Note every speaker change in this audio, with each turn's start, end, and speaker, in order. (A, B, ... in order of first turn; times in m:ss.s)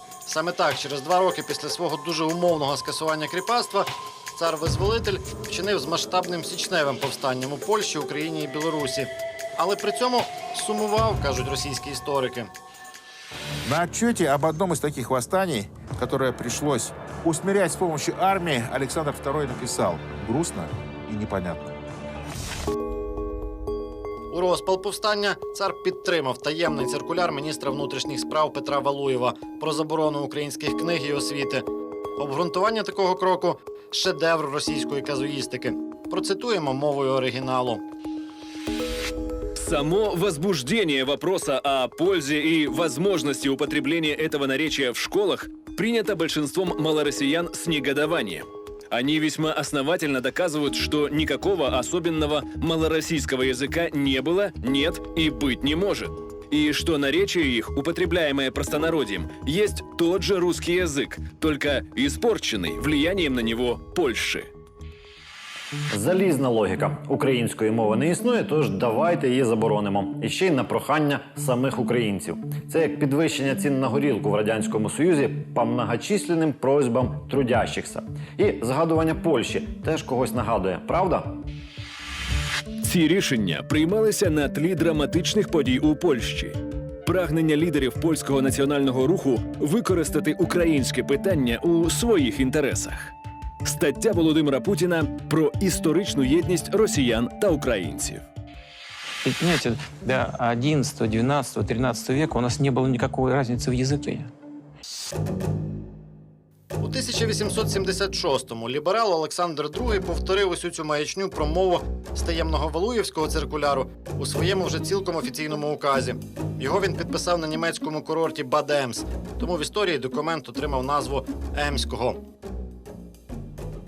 0:00.2-0:12.5 A
0:13.6-0:21.7 B
0:24.3-0:31.6 A
0:32.2-0:37.8 A
0:39.6-1:04.5 C
1:05.9-1:21.3 D
1:22.8-1:33.1 C
1:33.6-1:38.2 C
1:39.2-1:44.3 E
1:46.8-2:02.2 A